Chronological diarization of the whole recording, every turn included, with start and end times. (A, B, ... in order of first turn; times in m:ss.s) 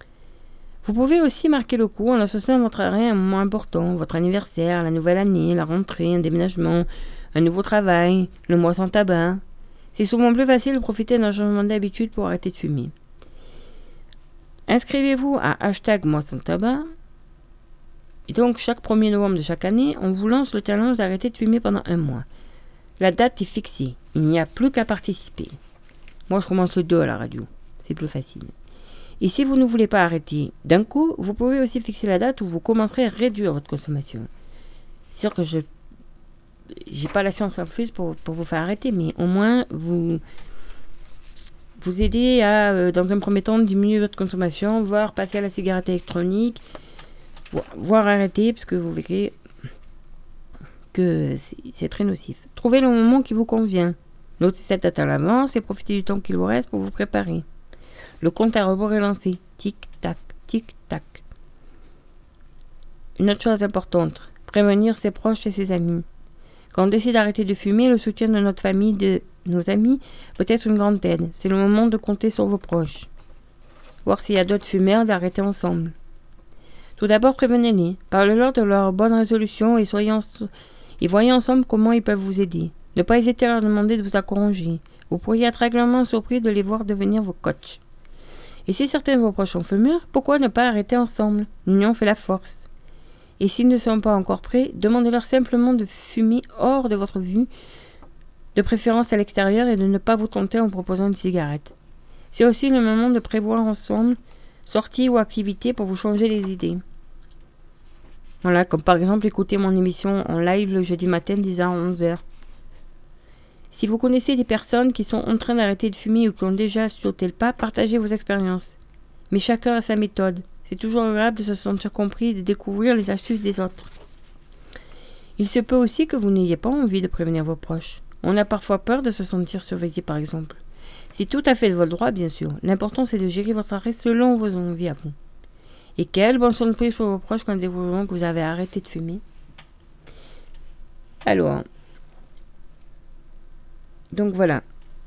0:00.8-0:09.4 A
0:09.9-0:12.9 A
0:14.7-0:16.8 A
0:18.3-0:22.2 A
0:23.0-0:25.6 A
0:26.3-0:28.5 A
0:29.2-0:34.3 A
0:35.1-0:35.7 A
0:36.8-0:40.2 A
0:41.8-0:46.6 A
0:47.5-0:49.4 A
0:50.9-0:57.4 A
0:58.2-1:01.2 A
1:03.2-1:06.0 A
1:06.7-1:13.1 A
1:14.0-1:15.9 A
1:17.0-1:27.8 A
1:28.6-1:32.7 A
1:33.4-1:37.5 A
1:38.5-1:41.7 A
1:42.3-1:46.8 A
1:48.4-1:52.2 A
1:53.7-1:58.8 A
1:59.3-2:03.9 A
2:05.4-2:10.6 A
2:11.1-2:15.1 A
2:16.0-2:19.2 A
2:21.2-2:21.6 A
2:24.1-2:24.6 A